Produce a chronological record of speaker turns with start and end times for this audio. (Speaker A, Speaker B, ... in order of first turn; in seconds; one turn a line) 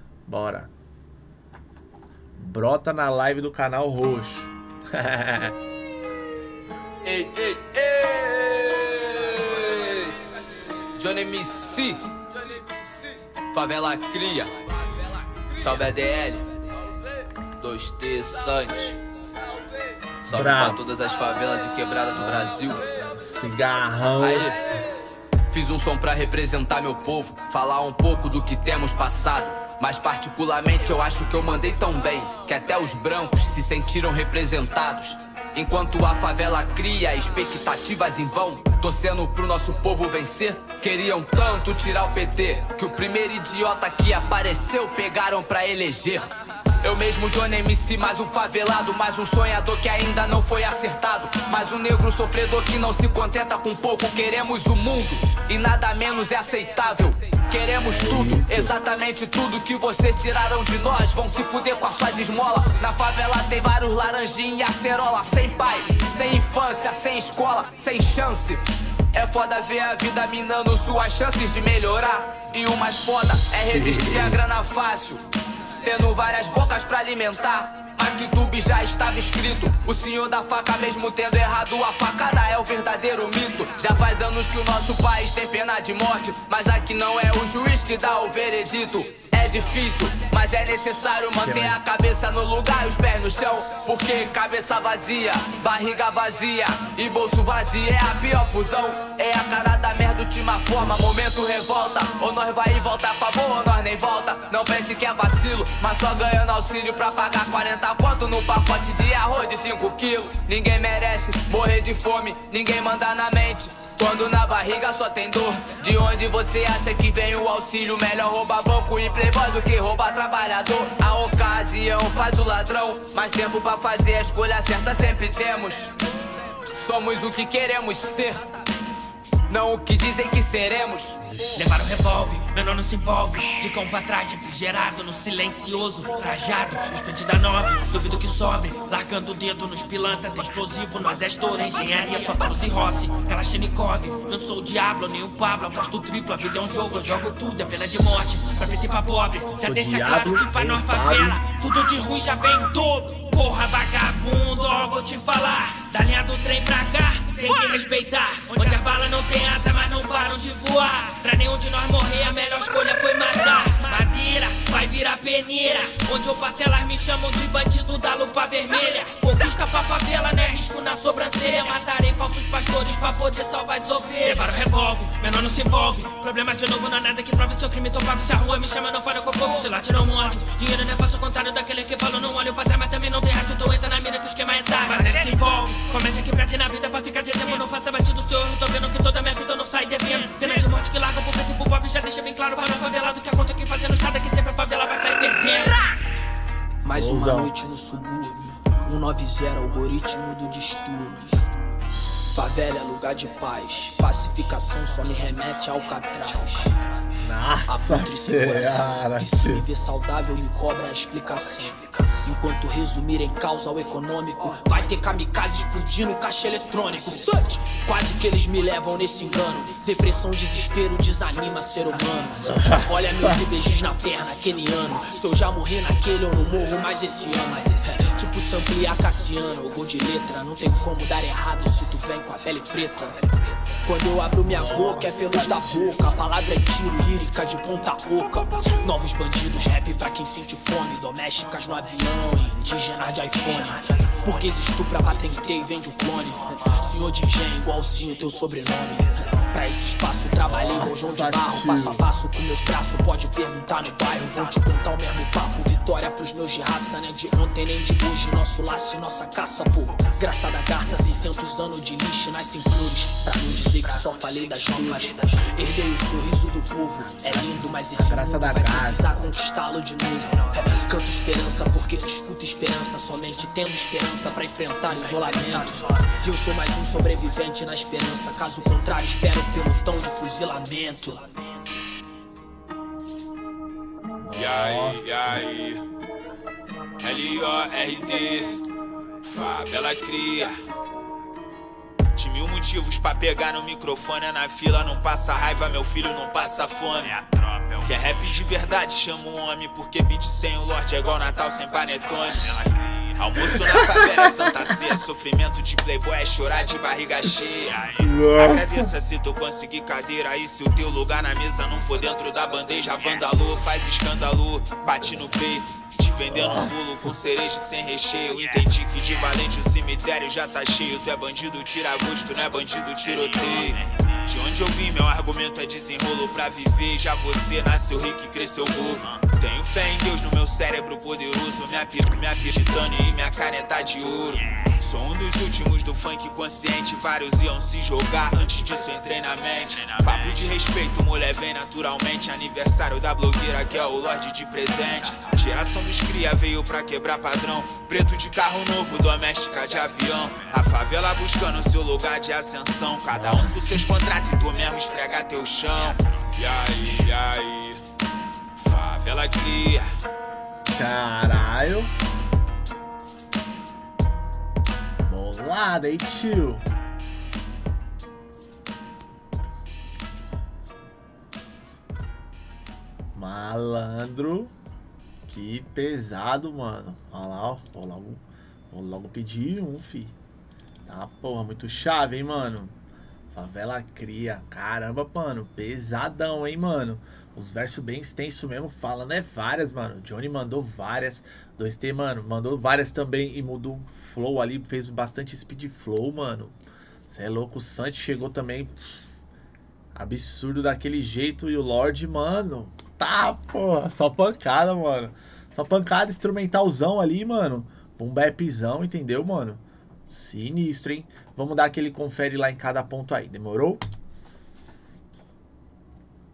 Speaker A: 0.2-0.7
Speaker A: 2.4-5.5
Speaker B: 7.0-10.2
Speaker B: 10.9-12.2
Speaker B: 13.5-14.5
Speaker B: 15.5-16.5
Speaker B: 17.6-19.0
Speaker A: 20.2-20.8
Speaker B: 20.2-22.9
Speaker A: 22.1-24.6
Speaker B: 24.2-24.6
Speaker B: 25.5-75.2
Speaker A: 57.8-58.7
Speaker A: 73.0-74.4
Speaker B: 75.8-125.9
Speaker A: 91.3-91.8
Speaker B: 126.7-128.5
Speaker B: 129.5-131.3
Speaker A: 131.2-132.0
Speaker C: 131.5-195.9
Speaker A: 149.6-151.4
Speaker D: 196.8-201.4
Speaker A: 196.9-197.5
Speaker A: 201.9-202.5
Speaker D: 202.3-206.8
Speaker A: 207.2-209.7
Speaker D: 207.7-233.2
Speaker A: 222.5-223.4
Speaker D: 233.8-281.2
Speaker A: 234.4-236.0
Speaker A: 250.4-252.1
Speaker A: 267.1-269.1
Speaker A: 284.2-285.4
Speaker E: 284.3-285.8
Speaker E: 287.0-288.6
Speaker E: 289.2-290.5
Speaker E: 292.1-357.8
Speaker A: 303.4-304.9
Speaker A: 307.8-308.9
Speaker A: 315.0-315.3
Speaker A: 316.3-317.1
Speaker A: 353.1-353.9
Speaker E: 358.6-359.9
Speaker A: 360.7-361.9
Speaker A: 365.0-366.6
Speaker A: 373.1-374.5
Speaker A: 375.2-380.1
Speaker A: 380.9-382.7
Speaker A: 383.3-396.6
Speaker A: 397.1-399.1
Speaker A: 399.9-413.8